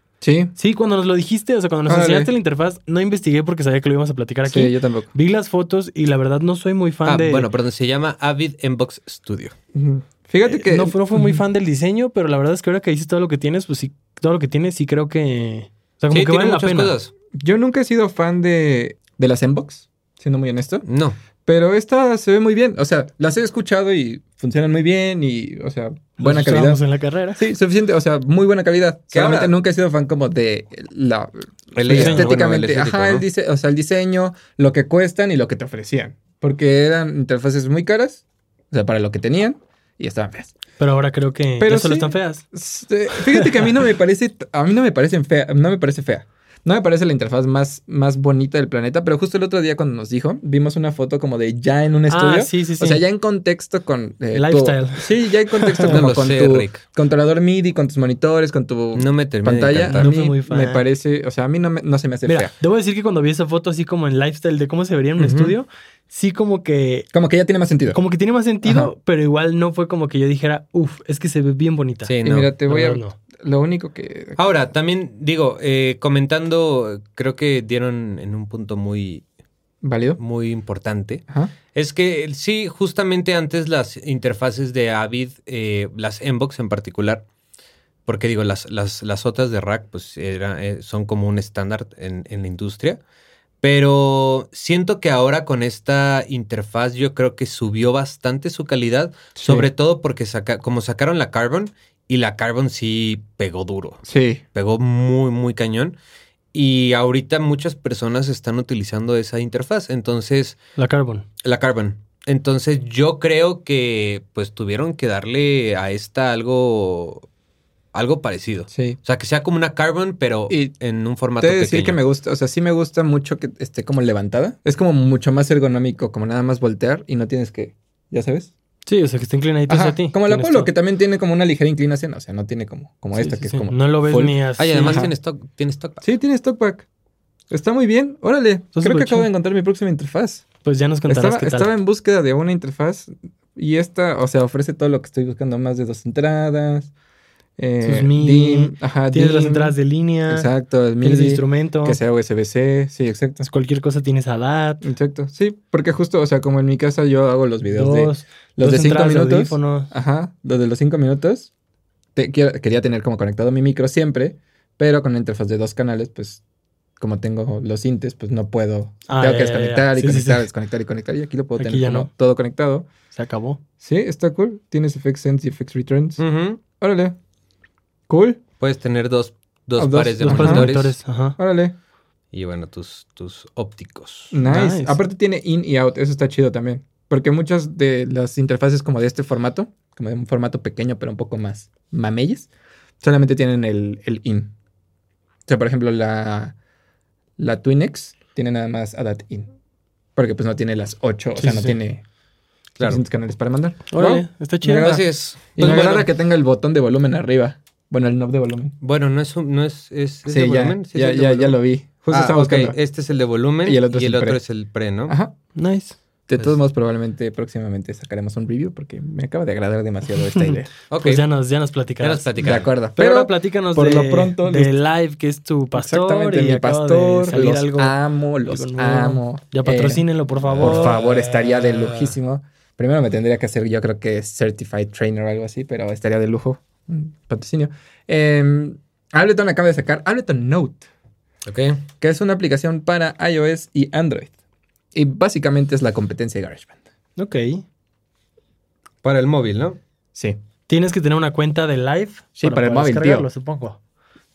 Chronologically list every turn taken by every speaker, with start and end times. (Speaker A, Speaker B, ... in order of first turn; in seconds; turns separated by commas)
Speaker A: 0.2-0.5, Speaker B: 0.6-7.5, Speaker A: 1.9-2.3, Speaker A: 4.4-5.1, Speaker C: 7.0-9.5, Speaker A: 9.7-11.4, Speaker B: 10.5-16.9, Speaker C: 16.1-17.1, Speaker A: 17.3-20.8, Speaker C: 20.8-21.2, Speaker A: 21.4-26.8, Speaker B: 26.2-27.4, Speaker A: 27.4-40.5, Speaker C: 29.1-29.5, Speaker C: 31.7-33.2, Speaker B: 31.9-32.3, Speaker B: 40.8-42.4, Speaker A: 41.6-62.5, Speaker B: 43.1-43.6, Speaker B: 52.1-53.0, Speaker B: 54.3-56.0, Speaker C: 55.9-56.8, Speaker C: 58.9-60.1, Speaker B: 59.9-60.8, Speaker B: 62.2-67.1, Speaker C: 65.2-65.5, Speaker A: 67.1-68.0, Speaker B: 67.9-72.1, Speaker A: 68.6-68.9, Speaker C: 72.0-72.5, Speaker A: 72.2-74.7, Speaker B: 72.7-73.1, Speaker C: 74.4-79.2, Speaker A: 79.8-80.2, Speaker C: 80.2-87.2, Speaker C: 88.0-93.0, Speaker C: 93.6-104.0, Speaker A: 99.3-99.7, Speaker A: 104.0-104.4, Speaker C: 104.5-106.0, Speaker C: 106.5-110.6, Speaker B: 110.8-111.2, Speaker C: 111.4-117.3, Speaker C: 117.9-122.0, Speaker A: 118.7-119.0, Speaker A: 120.5-120.7, Speaker A: 121.4-128.5, Speaker B: 128.8-130.7, Speaker A: 129.7-135.1, Speaker B: 133.1-135.1, Speaker C: 134.6-136.0, Speaker A: 136.0-136.8, Speaker A: 137.5-140.5, Speaker B: 138.8-139.3, Speaker B: 140.6-141.7, Speaker A: 141.1-146.9, Speaker A: 147.6-149.8, Speaker B: 147.8-150.5, Speaker A: 150.3-153.5, Speaker B: 151.0-152.0, Speaker B: 153.4-154.9, Speaker A: 154.8-161.5, Speaker B: 157.7-159.9, Speaker A: 162.2-166.4, Speaker A: 167.0-172.9, Speaker B: 169.1-170.5, Speaker B: 171.6-172.1, Speaker B: 173.1-173.6, Speaker A: 173.8-176.2, Speaker C: 176.2-176.6, Speaker A: 176.8-177.2, Speaker A: 178.1-178.4, Speaker C: 178.6-181.0, Speaker A: 179.8-180.7, Speaker B: 180.2-181.4, Speaker A: 181.4-181.7, Speaker C: 182.3-184.3, Speaker A: 184.3-192.5, Speaker B: 184.4-185.0, Speaker A: 193.0-194.5, Speaker A: 195.5-196.6, Speaker A: 197.4-199.5, Speaker A: 200.2-202.0, Speaker B: 201.3-201.8, Speaker A: 202.8-208.8, Speaker B: 203.9-205.0, Speaker C: 204.8-206.1, Speaker C: 208.8-215.2, Speaker A: 210.2-212.8, Speaker A: 213.6-214.4, Speaker A: 215.1-215.3, Speaker B: 215.5-215.9, Speaker A: 216.3-220.7, Speaker B: 220.2-232.0, Speaker C: 220.9-221.2, Speaker C: 222.0-222.7, Speaker A: 222.4-224.7, Speaker A: 225.7-230.0, Speaker C: 230.5-231.1, Speaker A: 230.6-240.8, Speaker C: 241.4-241.8, Speaker A: 242.0-244.3, Speaker A: 244.9-246.8, Speaker B: 247.2-247.6, Speaker C: 249.0-249.8, Speaker B: 250.7-253.8, Speaker A: 252.4-253.3